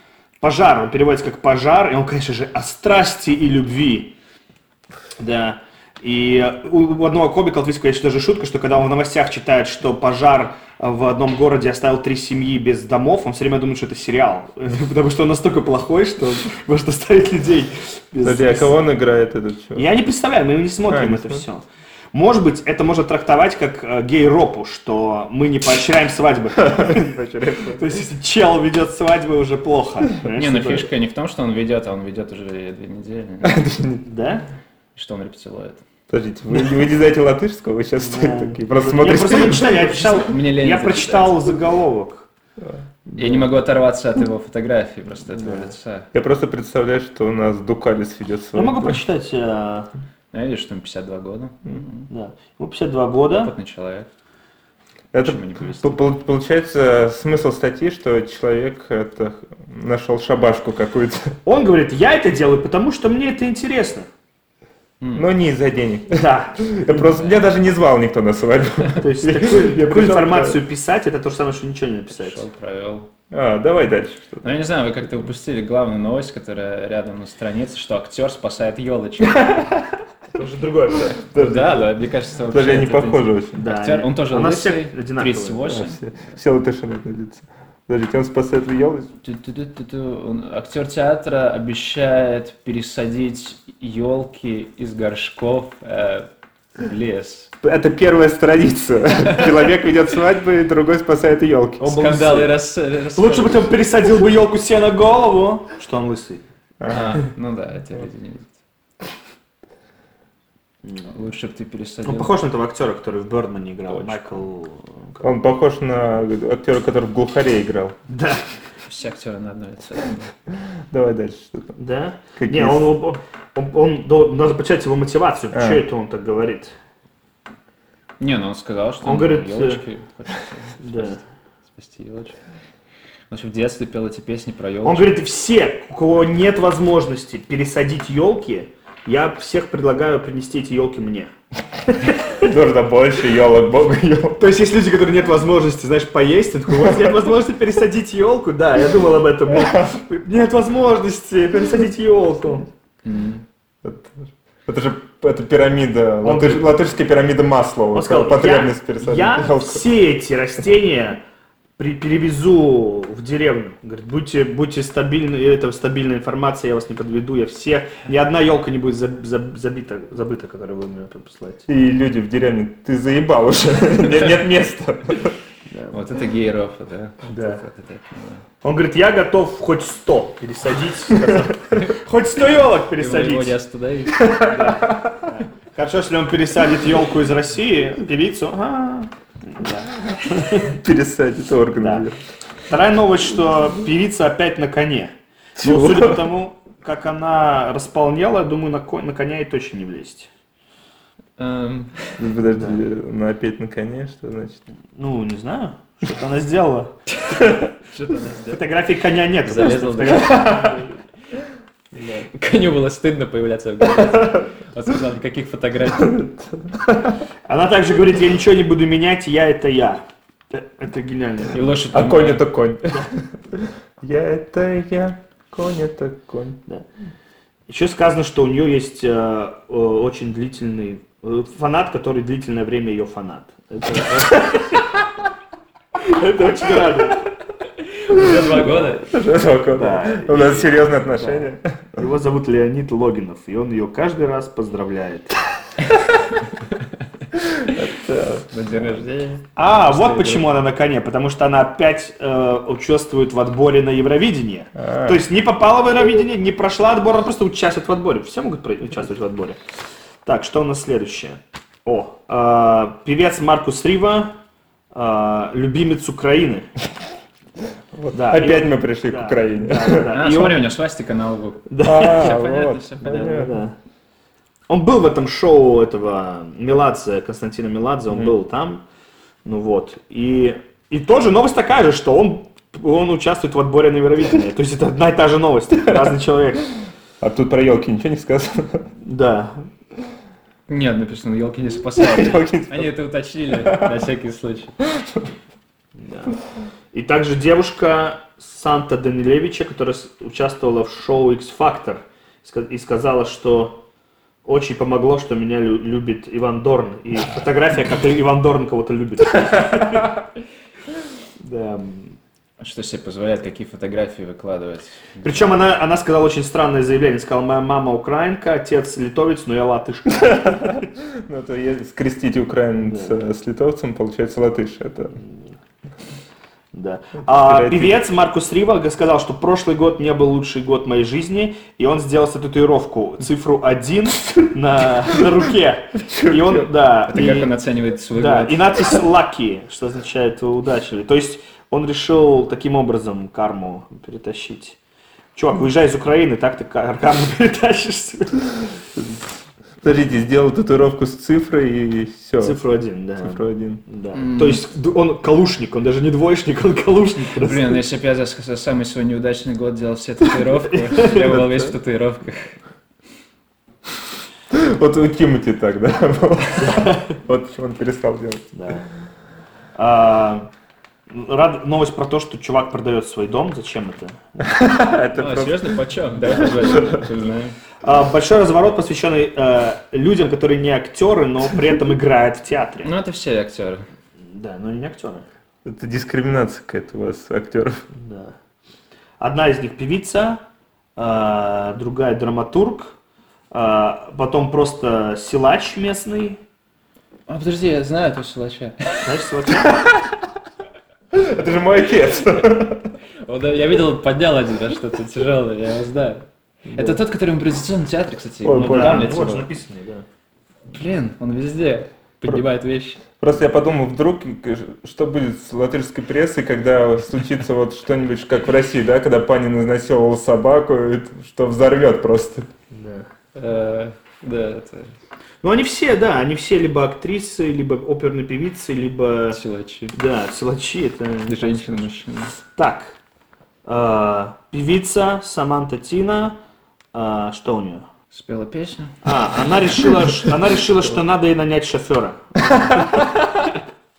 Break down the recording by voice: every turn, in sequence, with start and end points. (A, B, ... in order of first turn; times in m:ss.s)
0:00.4-0:04.1 A
0:05.2-0:18.8 A
0:18.2-0:19.9 B
0:19.8-0:27.2 A
0:20.9-0:21.4 B
0:26.6-0:28.0 B
0:27.7-0:30.9 A
0:30.3-0:33.6 C
0:33.4-0:34.0 B
0:34.0-0:34.4 A
0:35.0-0:35.8 C
0:36.1-0:40.1 B
0:38.0-0:42.3 A
0:39.7-0:41.5 C
0:43.0-0:43.6 A
0:43.2-0:46.1 C
0:45.3-0:45.7 A
0:46.1-0:49.0 B
0:48.5-0:49.9 A
0:50.3-0:52.1 C
0:52.1-0:53.5 A
0:53.3-0:54.1 C
0:55.1-1:01.3 B
0:55.2-0:56.0 C
1:01.4-1:04.1 A
1:05.0-1:05.3 C
1:05.1-1:10.6 B
1:06.1-1:06.9 A
1:07.0-1:07.5 C
1:09.0-1:12.4 A
1:12.1-1:13.1 C
1:13.3-1:14.5 B
1:14.4-1:19.7 C
1:20.3-1:21.2 A
1:21.3-1:21.9 B
1:21.3-1:26.0 C
1:22.5-1:23.6 B
1:23.6-1:25.8 A
1:25.7-1:29.1 B
1:29.2-1:37.5 C
1:37.6-1:42.0 B
1:41.8-1:42.6 A
1:41.8-1:43.7 C
1:43.1-1:46.4 A
1:46.8-1:47.2 B
1:46.9-1:48.5 C
1:51.1-1:52.3 C
1:52.0-1:55.2 A
1:53.9-1:54.4 C
1:55.2-1:58.0 B
1:58.1-1:58.4 A
1:58.9-2:00.3 C
2:00.9-2:01.8 B
2:01.8-2:06.7 A
2:02.4-2:02.9 B
2:05.5-2:05.8 B
2:08.2-2:12.4 C
2:09.0-2:09.8 A
2:10.8-2:11.2 A
2:13.3-2:15.1 C
2:14.8-2:21.3 A
2:22.2-2:24.4 B
2:24.4-2:32.7 A
2:29.7-2:30.0 B
2:33.0-2:33.4 C
2:33.8-2:39.9 B
2:36.2-2:36.7 A
2:37.9-2:41.2 A
2:41.8-2:51.7 A
2:51.7-2:55.3 B
2:55.7-2:56.0 A
2:55.9-2:58.4 C
2:57.3-2:57.6 A
2:58.6-3:03.6 A
3:03.0-3:05.0 C
3:05.2-3:10.7 A
3:10.6-3:12.2 B
3:12.7-3:20.3 A
3:15.6-3:16.3 B
3:21.4-3:22.2 C
3:22.2-3:24.7 B
3:22.6-3:22.8 A
3:25.0-3:26.9 A
3:27.2-3:28.7 C
3:28.5-3:30.9 A
3:29.4-3:30.7 C
3:30.2-3:30.8 B
3:31.9-3:32.3 A
3:32.3-3:36.2 C
3:36.0-3:37.2 B
3:37.4-3:41.8 A
3:41.5-3:42.4 C
3:41.9-3:46.6 B
3:47.7-3:54.7 A
3:56.0-3:57.2 A
3:58.0-3:59.0 C
3:59.0-4:02.0 B
3:59.7-4:05.4 A
4:07.3-4:09.0 B
4:08.5-4:10.5 C
4:09.6-4:19.6 A
4:14.7-4:15.2 B
4:20.2-4:24.4 A
4:24.9-4:26.7 A
4:27.9-4:30.1 B
4:28.1-4:30.7 A
4:30.1-4:33.4 C
4:31.7-4:32.4 A
4:31.8-4:33.6 B
4:33.1-4:33.8 A
4:34.7-4:38.8 A
4:39.4-4:46.7 A
4:47.2-4:48.9 B
4:49.0-4:49.6 A
4:50.7-4:54.8 C
4:51.9-4:52.9 B
4:53.6-4:53.9 B
4:55.0-4:55.2 B
4:56.0-4:56.3 A
4:56.9-5:03.8 A
5:04.4-5:10.2 A
5:11.4-5:12.2 A
5:12.6-5:15.5 C
5:15.2-5:20.9 A
5:20.3-5:25.2 B
5:22.8-5:23.2 A
5:26.7-5:37.5 A
5:27.2-5:28.0 B
5:36.0-5:36.7 B
5:37.1-5:38.9 C
5:38.1-5:44.8 A
5:45.3-5:48.7 A
5:49.8-5:52.6 B
5:52.4-5:57.8 A
5:53.2-5:53.8 B
5:54.1-5:54.6 C
5:57.4-6:02.6 C
6:00.7-6:01.6 A
6:04.5-6:08.4 B
6:08.5-6:08.8 A
6:09.7-6:10.5 A
6:11.1-6:14.4 A
6:14.4-6:15.7 B
6:15.2-6:17.6 C
6:16.3-6:17.0 B
6:17.8-6:22.9 A
6:22.8-6:23.8 C
6:24.3-6:25.3 A
6:25.6-6:27.8 B
6:27.9-6:28.4 A
6:29.2-6:30.4 A
6:31.0-6:33.0 A
6:33.5-6:36.4 A
6:37.3-6:39.3 C
6:39.0-6:39.8 A
6:39.6-6:40.2 B
6:41.1-6:42.9 B
6:43.2-6:49.5 C
6:46.7-6:47.0 B
6:48.4-6:49.2 B
6:48.6-6:50.0 A
6:50.7-6:53.0 C
6:53.2-7:02.5 B
7:02.7-7:03.1 A
7:03.3-7:04.9 C
7:05.4-7:09.4 A
7:09.3-7:10.0 C
7:09.9-7:13.0 A
7:11.3-7:12.3 C
7:13.6-7:16.4 A
7:16.9-7:17.9 A
7:18.1-7:19.1 C
7:19.0-7:23.1 A
7:22.6-7:23.4 B